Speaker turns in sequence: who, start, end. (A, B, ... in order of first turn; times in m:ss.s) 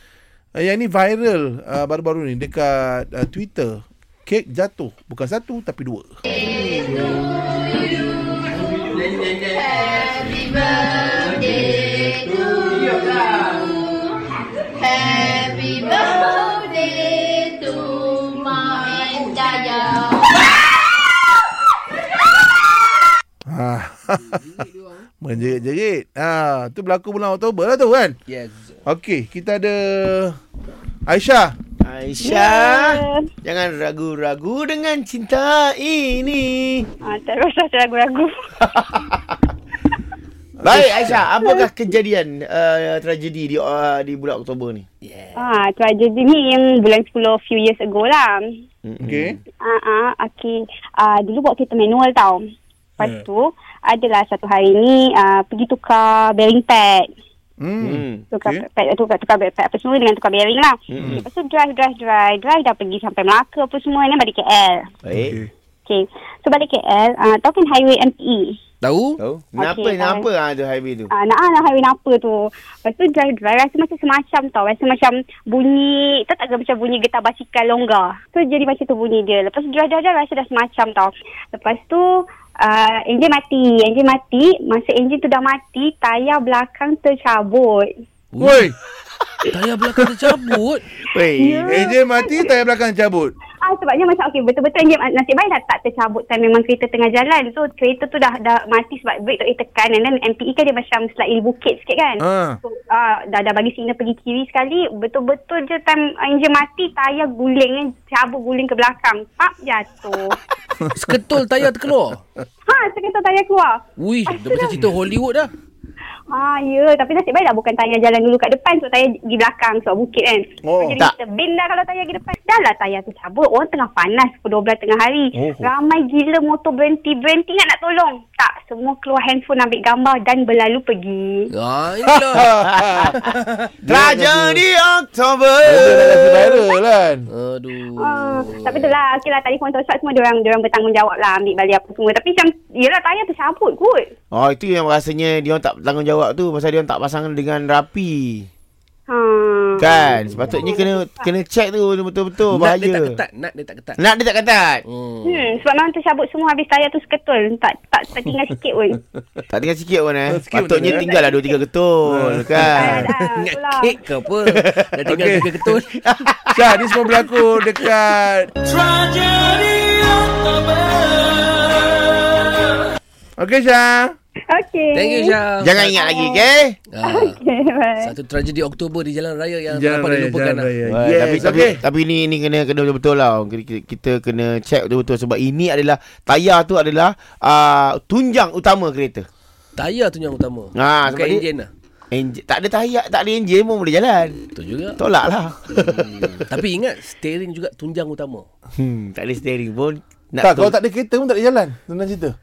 0:00.6-0:06.2 A
0:10.0-0:13.5 B
0:12.1-0:12.7 C
0:14.8-0:20.2 C
0:23.5-0:24.4 A
0:24.4-0:24.8 B
0:25.2-0:28.2 A
0:28.3-0:28.8 B
0:28.8-0:30.4 A
0:31.1-0:31.5 A
0:31.8-0:36.9 D
0:32.2-0:33.3 E
0:37.0-0:38.5 E
0:38.6-0:39.5 D
0:40.6-0:41.2 A
0:40.6-0:44.8 D
0:41.4-0:41.7 E
0:45.0-0:45.5 B
0:45.4-0:48.4 E
0:48.8-0:49.4 D
0:49.0-0:49.4 A
0:49.6-0:52.4 E
0:53.0-0:57.1 E
0:57.6-0:58.6 A
0:57.8-0:58.2 D
0:58.3-1:04.9 E
1:00.9-1:01.2 D
1:05.0-1:05.4 D
1:05.1-1:05.5 A
1:05.8-1:08.6 E
1:08.8-1:09.2 B
1:09.2-1:11.1 D
1:09.6-1:10.3 E
1:11.1-1:27.9 E
1:28.3-1:28.7 B
1:28.4-1:28.7 A
1:29.5-1:30.9 B
1:31.0-1:31.9 D
1:31.2-1:32.5 E
1:31.6-1:33.3 A
1:33.6-1:50.4 E
1:42.2-1:42.6 A
1:50.9-1:52.2 B
1:52.6-1:54.9 E
1:54.0-1:55.5 B
1:56.3-2:11.5 E
2:00.6-2:01.0 A
2:05.3-2:05.7 A
2:11.5-2:12.5 B
2:12.3-2:14.6 A
2:12.6-2:13.2 D
2:13.8-2:16.5 D
2:15.6-2:17.3 A
2:17.3-2:19.0 B
2:18.0-2:24.1 E
2:24.3-2:28.5 D
2:29.1-2:31.3 E
2:29.8-2:33.2 D
2:32.5-2:34.0 B
2:34.0-2:34.8 D
2:34.8-2:35.5 B
2:35.2-2:39.0 E
2:39.5-2:43.1 D
2:40.3-2:41.0 A
2:40.9-2:41.6 E
2:42.1-2:43.3 A
2:42.7-2:43.9 E
2:43.3-2:46.2 B
2:44.4-2:45.0 D
2:45.0-2:45.5 A
2:45.9-2:47.2 D
2:46.5-2:48.5 A
2:48.6-2:52.5 B
2:53.4-2:54.1 A
2:54.5-2:55.3 E
2:54.9-2:55.9 B
2:55.6-2:56.8 D
2:55.9-2:56.4 E
2:56.9-2:57.4 B
2:57.0-2:58.1 E
2:58.0-3:01.7 B
2:59.7-3:01.8 A
3:00.9-3:09.2 D
3:09.8-3:11.7 B
3:10.7-3:11.4 D
3:12.1-3:14.4 D
3:14.5-3:15.0 B
3:15.0-3:16.4 D
3:15.7-3:18.5 B
3:18.8-3:20.7 D
3:20.4-3:22.3 A